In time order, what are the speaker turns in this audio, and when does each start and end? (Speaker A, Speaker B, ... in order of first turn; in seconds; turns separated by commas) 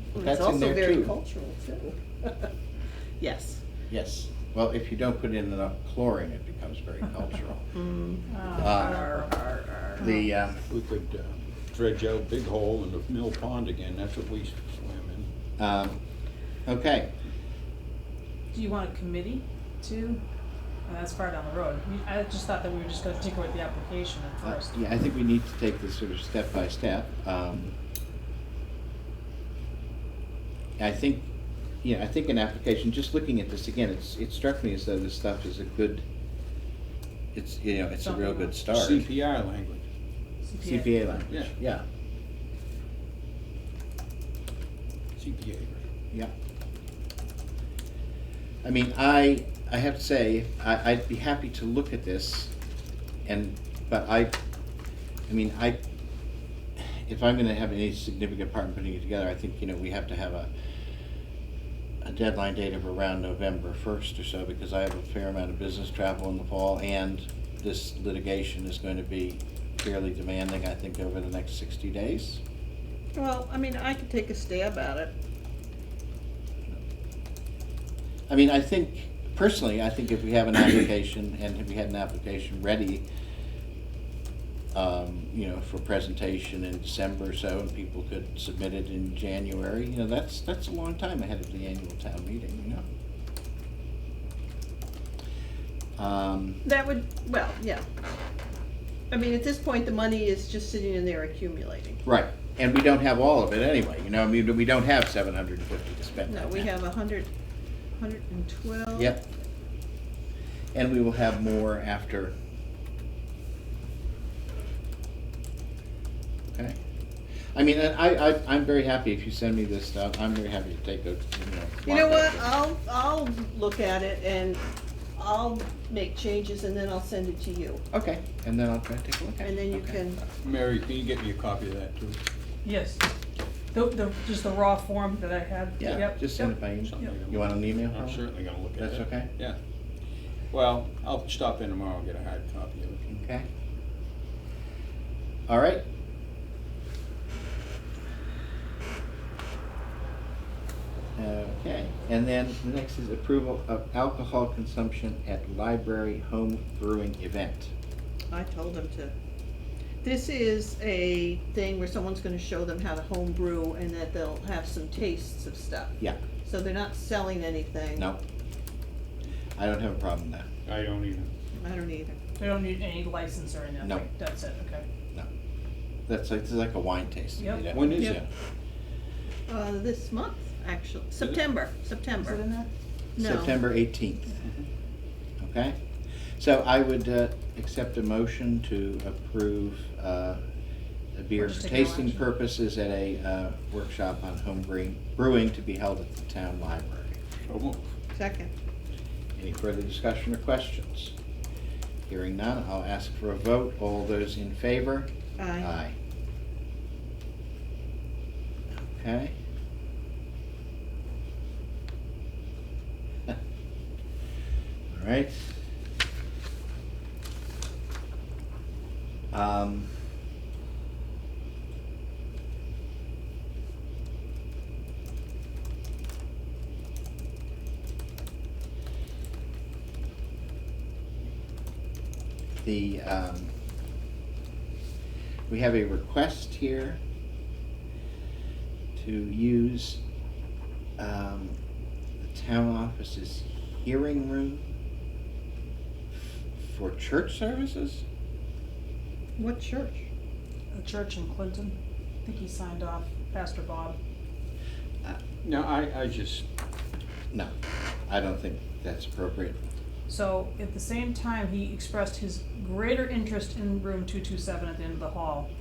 Speaker A: 0.1-1.1, Speaker B: 0.1-2.5, Speaker B: 3.2-3.6, Speaker A: 3.9-7.6, Speaker B: 7.7-8.3, Speaker C: 8.3-9.3, Speaker A: 8.6-9.0, Speaker B: 8.8-10.0, Speaker A: 10.0-10.6, Speaker C: 10.0-10.3, Speaker D: 10.7-15.3, Speaker A: 15.6-16.0, Speaker A: 16.7-17.1, Speaker C: 18.5-20.2, Speaker C: 20.9-24.8, Speaker A: 24.4-27.8, Speaker A: 30.8-31.3, Speaker A: 31.8-36.0, Speaker A: 37.3-39.1, Speaker C: 38.0-38.6, Speaker D: 38.6-39.9, Speaker C: 40.5-41.2, Speaker A: 40.6-41.9, Speaker D: 45.2-45.9, Speaker A: 48.6-52.5, Speaker A: 53.3-54.4, Speaker A: 55.3-55.8, Speaker A: 56.8-60.5, Speaker A: 62.0-72.4, Speaker B: 73.2-75.1, Speaker A: 78.3-83.1, Speaker A: 84.7-92.8, Speaker A: 96.0-96.6, Speaker B: 96.7-97.9, Speaker B: 99.1-102.0, Speaker A: 102.0-106.7, Speaker B: 106.3-107.3, Speaker B: 108.0-109.2, Speaker A: 109.0-109.2, Speaker A: 110.7-112.3, Speaker A: 116.5-116.8, Speaker A: 117.5-122.5, Speaker B: 121.9-124.6, Speaker B: 125.2-127.8, Speaker A: 127.9-130.0, Speaker B: 129.4-130.2, Speaker D: 130.3-132.2, Speaker C: 132.7-133.0, Speaker C: 133.7-136.5, Speaker A: 135.8-138.2, Speaker D: 136.9-139.6, Speaker A: 138.8-139.3, Speaker D: 140.5-143.1, Speaker A: 143.1-143.5, Speaker A: 145.5-145.8, Speaker A: 151.2-157.7, Speaker B: 158.3-159.1, Speaker B: 160.0-168.1, Speaker A: 169.6-170.5, Speaker D: 170.7-171.3, Speaker B: 171.6-172.2, Speaker C: 172.4-174.8, Speaker A: 176.1-178.3, Speaker C: 177.4-177.9, Speaker D: 177.7-178.2, Speaker B: 179.5-182.4, Speaker C: 182.2-182.7, Speaker A: 183.2-184.4, Speaker B: 183.2-183.6, Speaker D: 184.4-184.7, Speaker A: 185.4-185.8, Speaker A: 186.4-190.4, Speaker A: 191.2-197.2, Speaker C: 191.3-192.3, Speaker D: 197.5-197.9, Speaker B: 198.1-198.5, Speaker A: 199.4-201.1, Speaker A: 202.1-205.9, Speaker B: 205.4-205.7, Speaker A: 208.7-209.3, Speaker A: 214.9-215.6, Speaker A: 219.3-219.9, Speaker A: 232.6-233.5, Speaker A: 235.5-237.0, Speaker A: 239.0-240.0, Speaker A: 241.0-241.6, Speaker A: 242.2-244.7, Speaker A: 246.1-248.0, Speaker B: 249.4-250.1, Speaker C: 250.7-254.0, Speaker D: 255.4-256.5, Speaker A: 258.1-259.6, Speaker C: 260.1-265.5